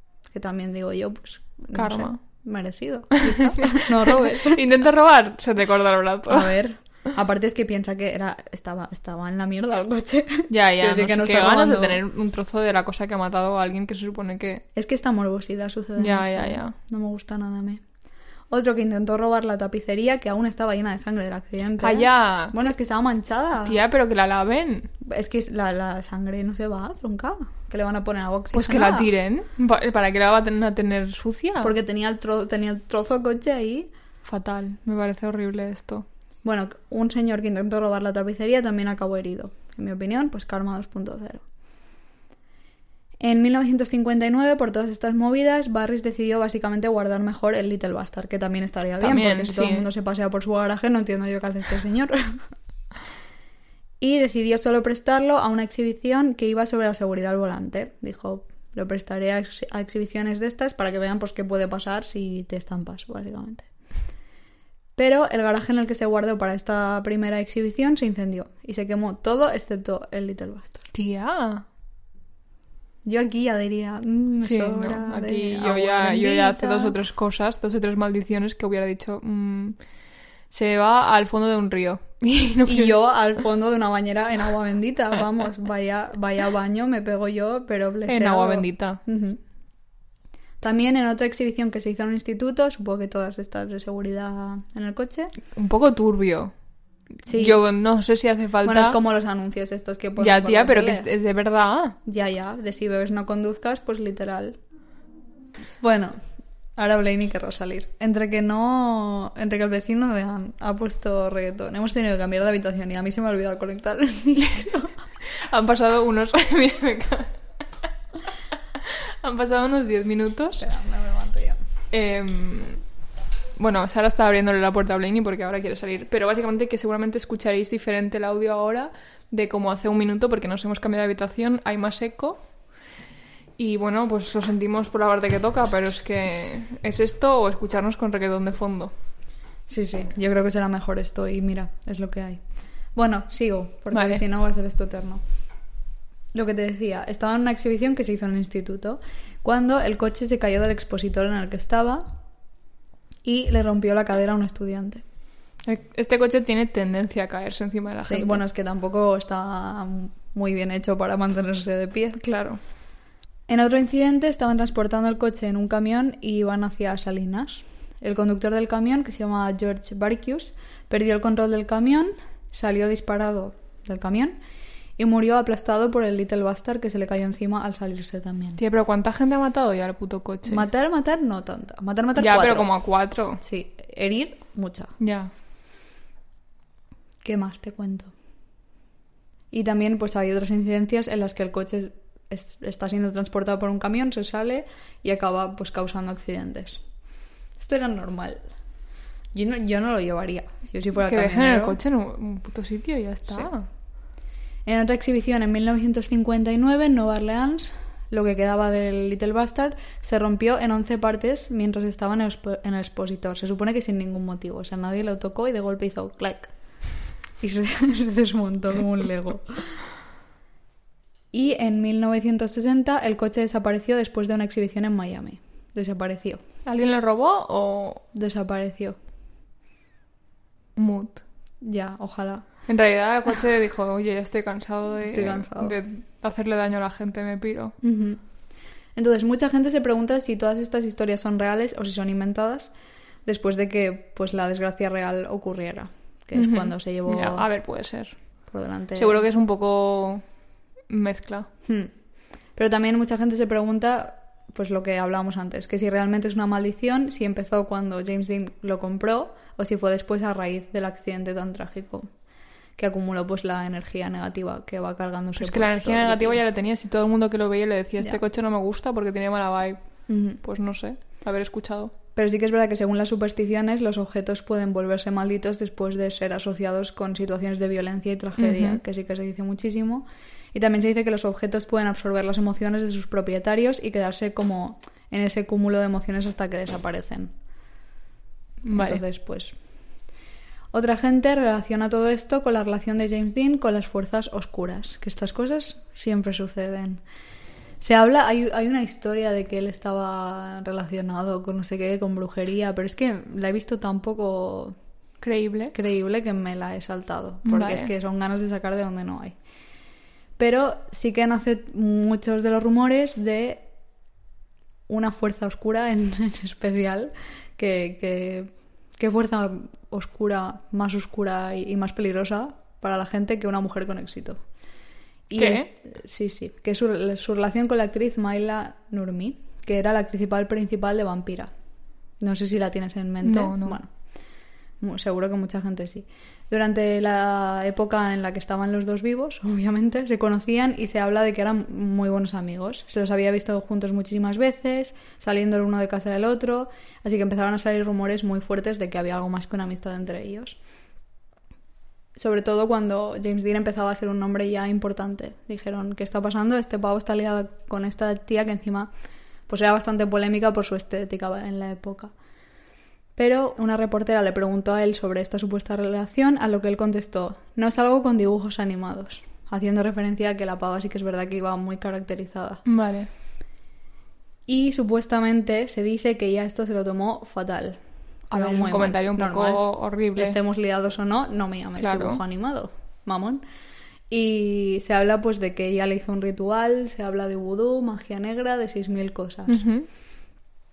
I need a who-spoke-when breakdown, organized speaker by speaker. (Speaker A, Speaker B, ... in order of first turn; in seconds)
Speaker A: 0.3-4.6, 6.3-12.0, 14.8-17.8, 18.5-23.8, 25.0-29.1, 31.6-33.9, 36.4-41.4, 43.2-52.4, 54.0-63.7, 65.0-70.9, 73.0-76.9, 82.7-89.4, 90.6-95.3, 97.2-97.6, 98.6-101.1, 102.0-104.6, 105.8-106.2, 106.8-114.9, 120.6-121.6, 139.7-145.2, 146.3-152.2, 153.2-155.0, 158.1-162.2, 163.5-174.4, 175.0-178.6, 180.5-182.8, 183.4-184.9, 187.2-188.1, 189.5-196.8, 197.6-198.4, 199.3-201.8, 204.6-219.8, 221.3-226.4, 228.1-228.9, 231.6-232.4, 235.1-235.8, 237.8-238.2, 238.9-242.7, 243.2-247.4, 248.5-249.2, 251.6-251.9, 252.5-262.1, 262.8-266.4, 270.1-270.4, 272.1-287.3, 288.7-289.6, 290.7-297.0, 297.8-304.8, 305.7-309.4, 310.4-313.7, 314.9-324.4, 325.3-331.5, 332.2-333.9, 334.8-350.6, 352.1-358.9, 359.5-362.1, 363.1-372.6, 374.5-383.4, 384.1-389.6
Speaker B: 1.7-2.2, 3.8-6.5, 10.5-14.6, 16.0-16.8, 21.8-22.6, 23.6-24.9, 28.5-31.8, 34.2-36.1, 49.0-49.9, 70.9-71.6, 74.4-79.8, 80.5-83.0, 88.1-89.0, 95.5-96.5, 97.3-99.0, 100.2-102.0, 115.3-117.4, 118.8-120.6, 121.9-122.8, 123.6-132.4, 133.6-138.9, 143.9-144.2, 155.6-158.4, 162.2-162.6, 178.6-180.7, 182.2-183.4, 185.0-185.3, 201.0-203.7, 226.6-228.0, 230.8-231.2, 232.7-237.8, 246.3-248.2, 248.9-250.2, 250.9-251.5, 265.4-271.9, 278.4-278.8, 288.6-289.0, 305.2-305.8, 307.4-307.9, 325.4-325.7, 333.2-333.8, 372.6-373.1, 378.3-380.4, 381.8-382.2, 389.5-389.9